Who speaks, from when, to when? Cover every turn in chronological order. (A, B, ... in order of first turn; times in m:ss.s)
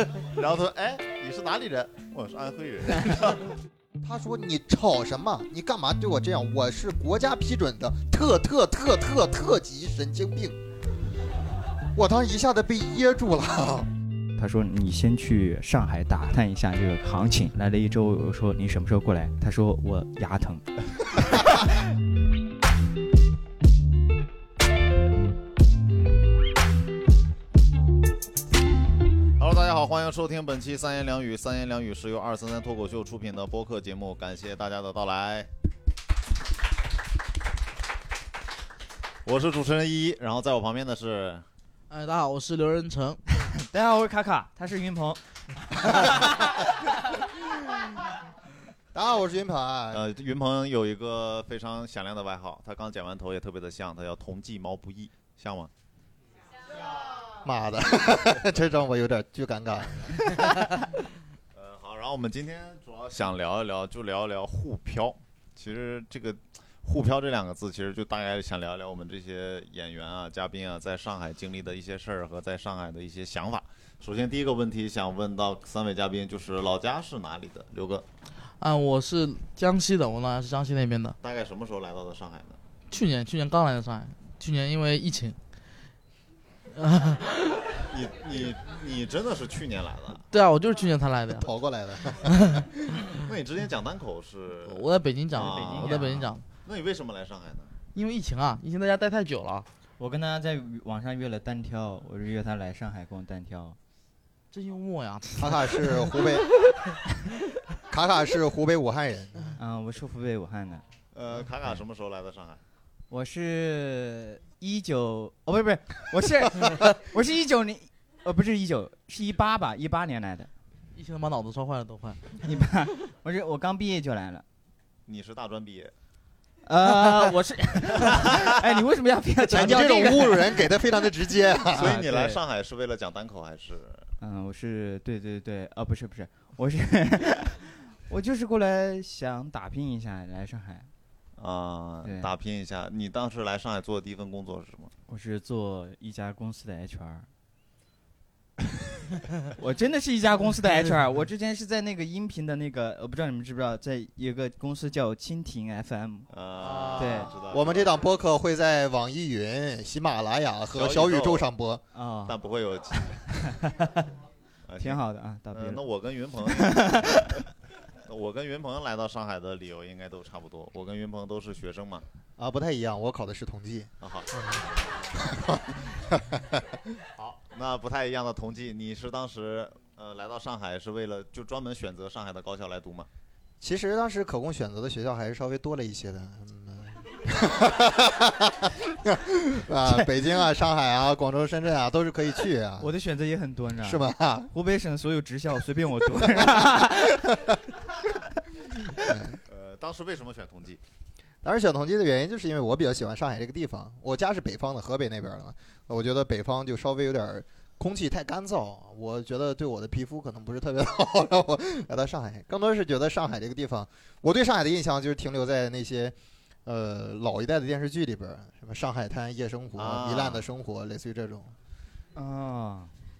0:00.2-0:03.4 A
0:04.0-0:10.6 B
0:12.0-0:13.9 B
0:14.4-0:20.6 C
0:29.4-0:35.5 A
0:39.2-0:41.4 A
0:41.9-0:43.2 D
0:43.6-0:46.6 C
0:48.9-0:50.0 B
0:49.9-0:55.7 A
0:57.2-1:00.5 B
1:01.5-1:18.0 A
1:18.6-1:21.2 D
1:21.2-1:22.6 A
1:22.9-1:25.4 D
1:26.7-1:27.7 D
1:27.9-1:30.2 A
1:30.3-1:31.5 D
1:31.3-1:32.8 B
1:32.2-1:32.7 D
1:33.2-1:37.7 A
1:34.6-1:36.4 D
1:35.3-1:36.2 C
1:38.0-1:39.7 D
1:40.0-1:43.8 C
1:44.5-1:46.4 D
1:45.4-1:46.5 B
1:47.9-1:49.6 B
1:49.6-1:50.8 C
1:51.1-1:52.6 A
1:53.1-2:00.5 C
2:00.9-2:02.4 D
2:02.4-2:04.4 C
2:05.1-2:05.9 A
2:06.6-2:10.7 C
2:09.5-2:12.0 B
2:11.7-2:12.4 C
2:11.7-2:14.0 A
2:14.2-2:20.9 C
2:21.4-2:24.9 A
2:22.0-2:22.3 C
2:25.1-2:27.3 C
2:29.6-2:36.3 C
2:36.3-2:37.9 A
2:36.6-2:37.3 D
2:37.0-2:37.3 C
2:37.5-2:41.8 B
2:40.8-2:41.5 A
2:41.9-2:42.4 C
2:42.3-2:43.1 A
2:42.9-2:43.8 C
2:44.7-2:45.0 A
2:44.8-2:45.8 C
2:45.5-2:47.4 A
2:46.5-2:47.3 C
2:48.1-2:52.0 A
2:52.4-2:56.6 B
2:54.0-2:54.3 A
2:57.2-3:03.1 A
3:03.6-3:12.9 B
3:09.8-3:10.1 C
3:12.8-3:17.4 C
3:13.8-3:14.5 B
3:16.4-3:16.8 B
3:19.0-3:19.4 B
3:19.5-3:20.8 A
3:21.4-3:41.5 B
3:39.8-3:40.4 A
3:42.2-3:42.9 C